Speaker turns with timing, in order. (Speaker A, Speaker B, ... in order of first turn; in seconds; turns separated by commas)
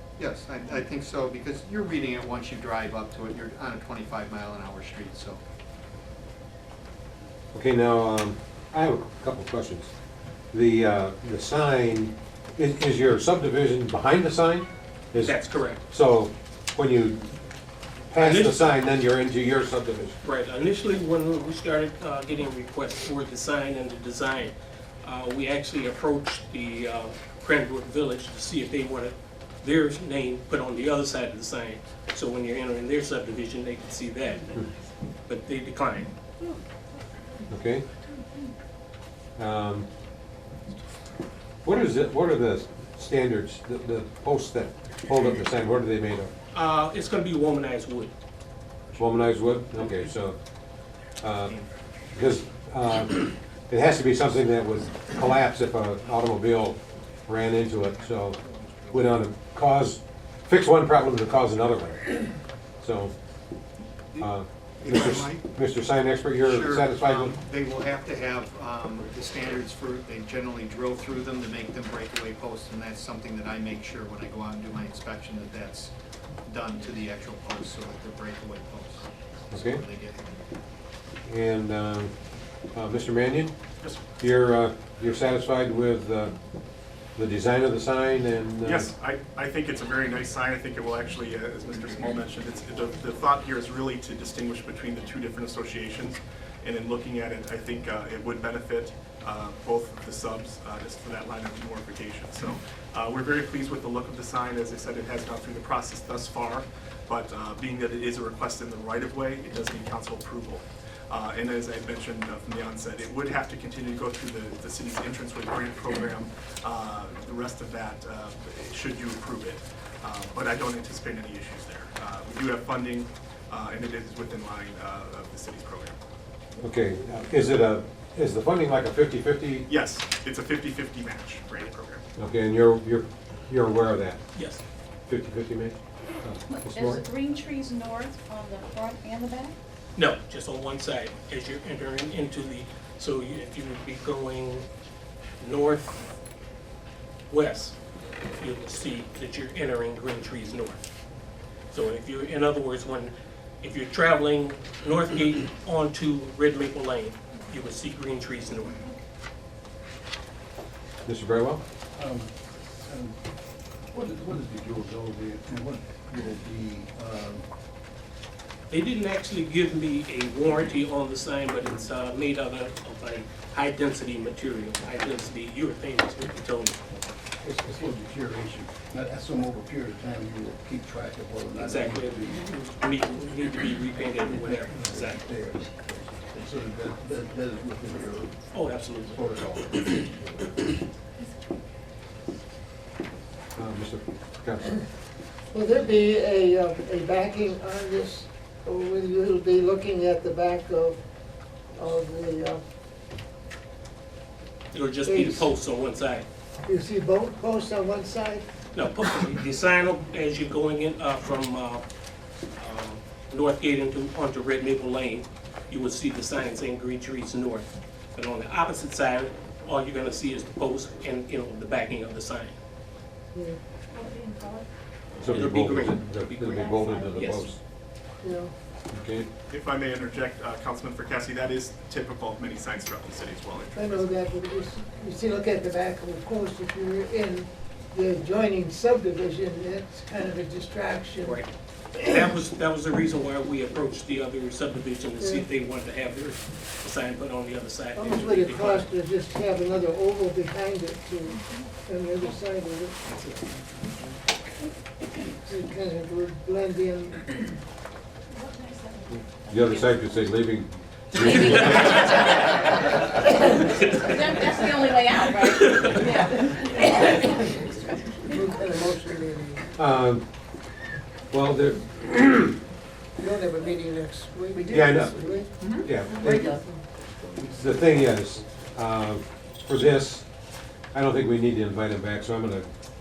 Speaker A: 0.2-5.4, Speaker B: 7.5-9.9, Speaker B: 10.5-17.2, Speaker C: 15.2-15.8, Speaker B: 18.1-20.2, Speaker C: 18.1-18.8, Speaker C: 20.2-34.5, Speaker C: 35.3-36.1, Speaker B: 37.5-37.8, Speaker B: 39.4-39.9, Speaker B: 41.6-46.3, Speaker C: 46.5-48.1, Speaker B: 49.0-50.4, Speaker B: 51.2-51.6, Speaker B: 52.1-58.4, Speaker A: 57.8-59.0, Speaker B: 58.9-62.2, Speaker B: 62.8-63.1, Speaker B: 64.2-67.4, Speaker A: 64.8-65.4, Speaker A: 66.4-75.9, Speaker A: 76.4-80.4, Speaker B: 79.5-79.8, Speaker B: 81.2-82.1, Speaker B: 82.7-83.5, Speaker B: 84.2-86.3, Speaker B: 87.2-88.9, Speaker D: 88.6-126.0, Speaker B: 126.6-129.7, Speaker D: 129.7-132.0, Speaker B: 132.2-134.2, Speaker C: 134.3-134.6, Speaker B: 135.1-137.0, Speaker E: 136.5-139.6, Speaker C: 139.9-144.7, Speaker C: 145.4-146.2, Speaker C: 147.3-147.7, Speaker C: 148.4-150.8, Speaker C: 151.7-158.8, Speaker B: 161.0-161.6, Speaker F: 161.9-162.3, Speaker F: 162.8-163.2, Speaker F: 163.9-167.4, Speaker C: 168.7-176.8, Speaker F: 177.4-182.7, Speaker C: 181.6-185.1, Speaker F: 184.2-188.3, Speaker C: 188.5-189.2, Speaker F: 189.1-190.5, Speaker B: 193.5-194.7, Speaker G: 195.5-201.0, Speaker G: 201.7-202.6, Speaker C: 204.7-206.2, Speaker G: 205.0-205.5, Speaker G: 206.6-208.4, Speaker C: 208.7-211.8, Speaker C: 212.6-222.5, Speaker H: 223.9-224.7, Speaker C: 225.2-227.5, Speaker B: 225.2-227.6, Speaker H: 226.5-227.2, Speaker G: 228.2-228.5, Speaker B: 228.9-229.3, Speaker D: 229.5-234.2, Speaker G: 233.7-241.4, Speaker C: 242.0-248.9, Speaker G: 245.2-245.4, Speaker G: 247.9-253.0, Speaker G: 255.4-257.4, Speaker H: 258.3-260.2, Speaker B: 259.5-262.1, Speaker E: 261.1-262.8, Speaker E: 264.0-268.9, Speaker C: 265.3-266.0, Speaker G: 268.3-269.6, Speaker B: 269.8-270.2, Speaker B: 271.3-272.6, Speaker G: 273.2-275.5, Speaker E: 274.5-276.7, Speaker B: 274.7-275.2, Speaker B: 275.8-276.6, Speaker G: 276.3-276.6, Speaker B: 277.4-280.3, Speaker B: 280.9-282.7